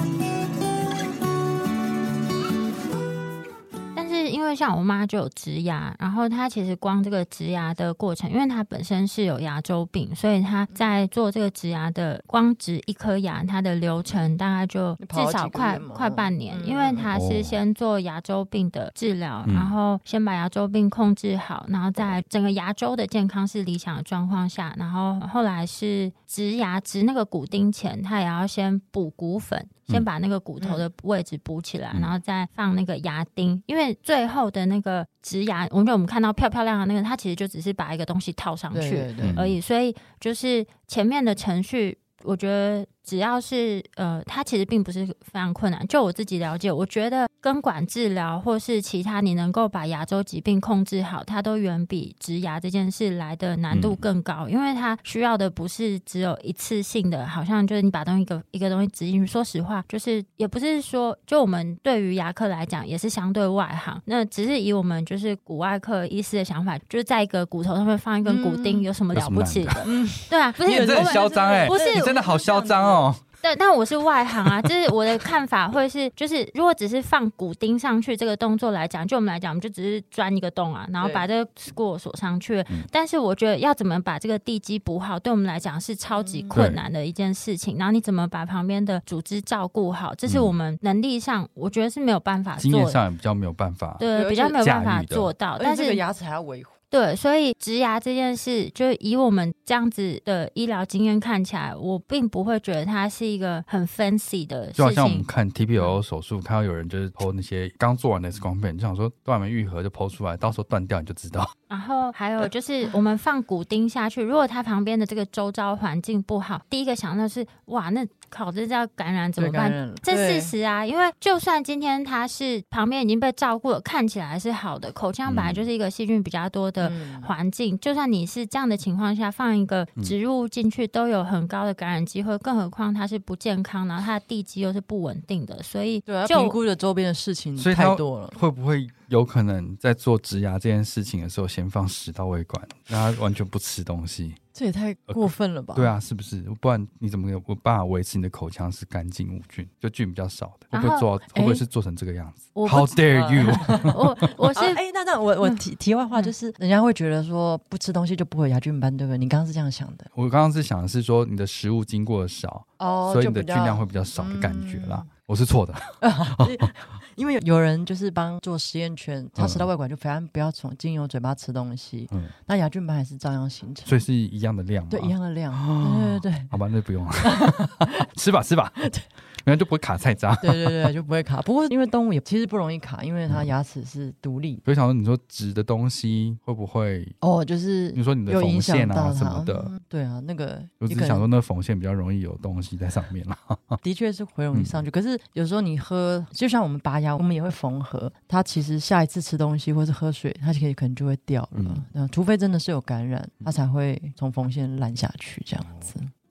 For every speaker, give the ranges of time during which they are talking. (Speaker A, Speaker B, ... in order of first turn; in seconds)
Speaker A: 4.0-72.2, 73.4-93.0, 94.0-96.0, 96.9-105.3, 111.7-136.6, 150.7-151.1, 152.6-154.8
Speaker B: 15.0-17.1, 38.7-39.4, 68.2-68.9, 69.8-73.1, 81.0-81.2, 86.2-86.7, 94.1-94.6, 95.6-96.7, 119.4-120.5, 126.8-127.3, 136.1-138.4, 144.5-145.9, 151.3-151.6, 153.1-154.0, 154.5-160.1, 162.8-165.1, 166.0-174.0, 174.9-176.5, 177.2-178.1, 180.4-184.6, 187.2-191.2, 193.8-206.1
Speaker C: 17.1-17.6, 19.5-19.7, 39.2-39.6, 53.7-54.0, 69.1-69.9, 70.6-73.2, 74.5-74.7, 86.5-86.8, 90.3-90.5, 92.6-95.3, 104.8-111.5, 125.3-125.7, 137.6-144.4, 145.1-154.1, 160.1-166.7, 169.4-169.7, 173.9-180.9, 184.7-187.2, 187.9-189.7, 190.8-193.8, 194.5-194.8, 201.6-201.8